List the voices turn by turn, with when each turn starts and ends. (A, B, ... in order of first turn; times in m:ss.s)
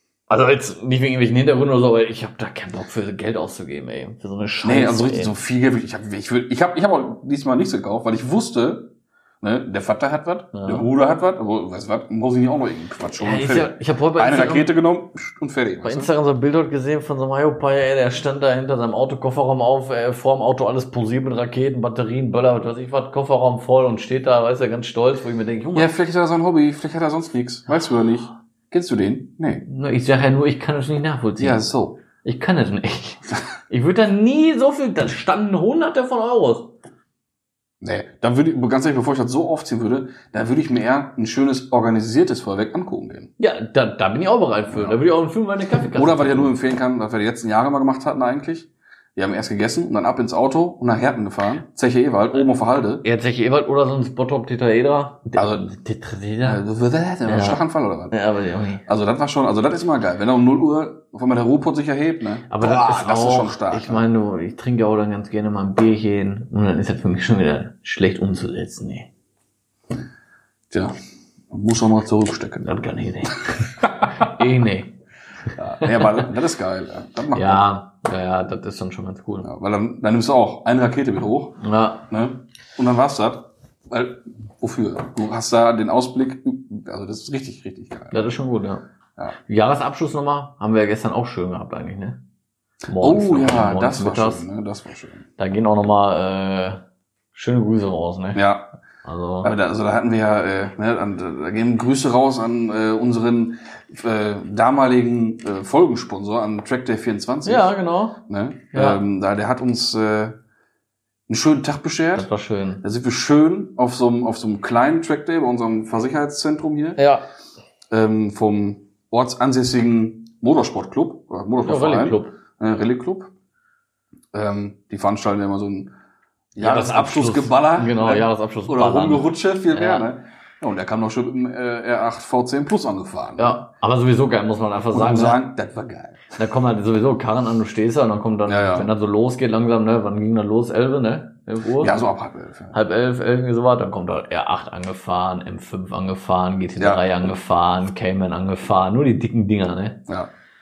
0:00.3-0:05.3 A
0:04.6-0:16.1 B
0:10.5-0:10.9 A
0:13.2-0:14.7 A
0:15.8-0:25.9 A
0:25.7-0:29.6 B
0:29.6-0:36.7 A
0:31.4-0:32.0 B
0:37.8-0:43.3 B
0:43.4-0:46.5 A
0:44.7-0:45.0 B
0:45.9-0:53.0 B
0:53.0-0:56.6 A
0:55.3-0:55.7 B
0:56.4-0:58.1 B
0:57.3-0:57.6 A
0:58.1-0:58.8 A
0:58.9-1:04.0 B
1:02.5-1:09.1 A
1:11.5-1:12.9 B
1:12.6-1:15.0 A
1:13.8-1:14.3 B
1:15.6-1:17.6 B
1:15.8-1:16.2 A
1:17.3-1:19.5 A
1:19.4-1:28.3 B
1:21.6-1:22.1 A
1:28.1-1:28.8 A
1:29.4-1:32.2 A
1:32.9-1:35.2 B
1:32.9-1:34.4 A
1:35.4-1:36.8 A
1:37.3-1:38.4 A
1:38.3-1:38.7 B
1:39.0-1:39.5 A
1:39.4-1:47.7 B
1:47.4-1:48.2 A
1:48.3-1:50.4 B
1:48.7-1:49.0 A
1:51.3-1:52.3 B
1:52.1-1:52.8 A
1:52.8-1:57.0 B
1:57.0-1:57.2 A
1:57.9-2:03.3 B
2:01.6-2:02.3 A
2:04.3-2:05.9 B
2:06.5-2:13.6 B
2:06.6-2:10.1 A
2:13.4-2:15.4 A
2:14.9-2:16.4 B
2:16.4-2:22.0 A
2:18.5-2:18.9 B
2:21.8-2:22.8 B
2:22.7-2:30.0 A
2:26.8-2:27.0 B